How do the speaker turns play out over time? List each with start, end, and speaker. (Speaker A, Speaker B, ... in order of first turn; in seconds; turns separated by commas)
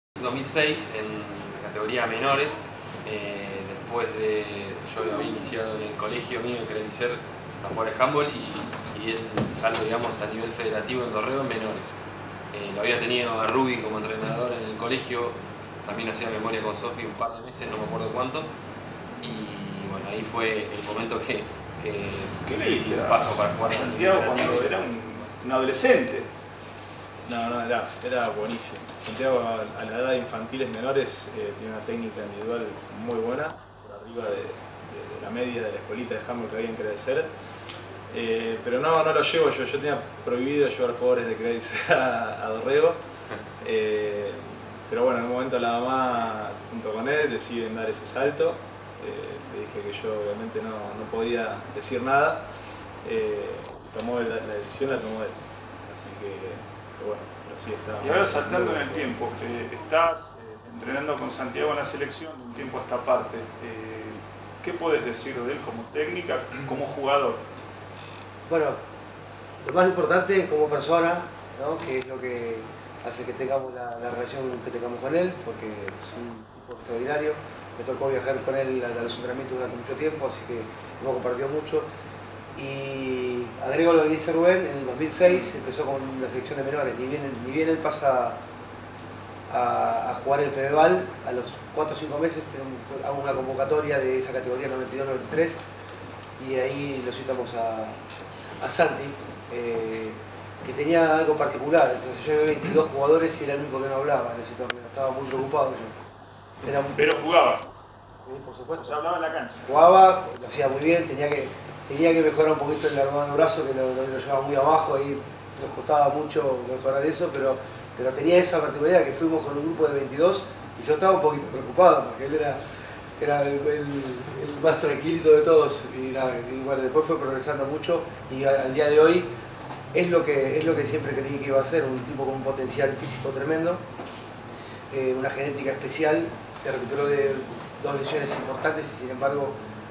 Speaker A: 0.2-12.0, Speaker A: 12.5-18.5, Speaker A: 19.2-24.8, Speaker B: 22.4-26.3, Speaker C: 27.2-37.3, Speaker C: 38.1-43.0, Speaker C: 43.6-52.5, Speaker C: 53.0-59.1, Speaker B: 58.0-67.4, Speaker D: 68.5-68.8, Speaker D: 69.6-81.9, Speaker D: 82.5-88.4, Speaker D: 89.5-95.7, Speaker D: 96.4-98.0, Speaker D: 98.6-106.0, Speaker D: 106.6-107.2, Speaker B: 106.9-107.7, Speaker D: 108.2-109.0, Speaker B: 108.8-109.7, Speaker D: 109.6-122.6, Speaker D: 123.2-129.3, Speaker D: 129.9-133.8, Speaker D: 134.9-139.6